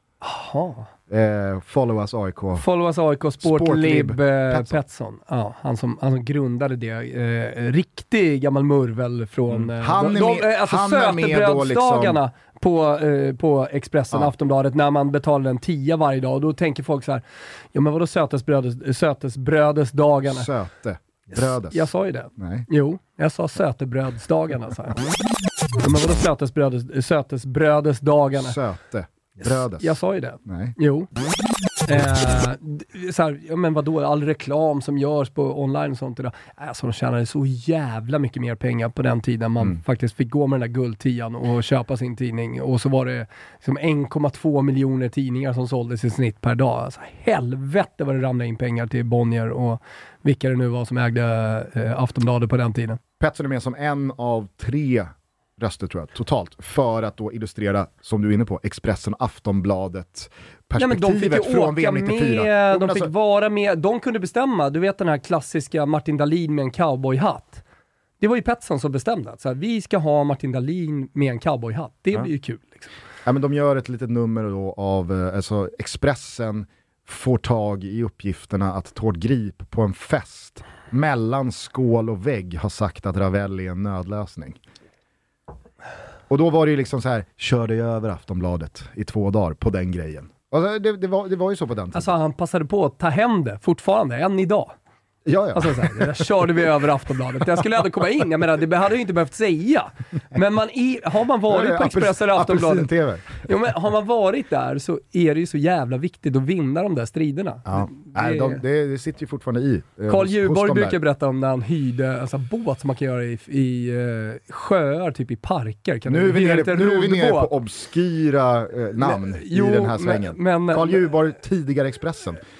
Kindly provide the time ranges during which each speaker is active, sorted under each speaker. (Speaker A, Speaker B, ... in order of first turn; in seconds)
Speaker A: 0.2-0.9, 2.5-17.2, 17.7-20.5, 21.3-25.1, 25.8-28.6, 29.4-31.1, 31.9-53.0, 60.8-67.6, 68.2-72.9, 91.9-94.7, 95.5-102.9, 103.4-108.6, 110.1-117.5, 119.0-121.0
Speaker B: 1.1-2.6, 3.4-4.8, 9.5-12.2, 20.2-22.7, 28.3-29.9, 30.4-30.8, 53.2-63.1, 73.2-84.6, 86.3-92.1, 95.2-96.2, 101.5-103.4, 107.7-111.0, 116.1-122.4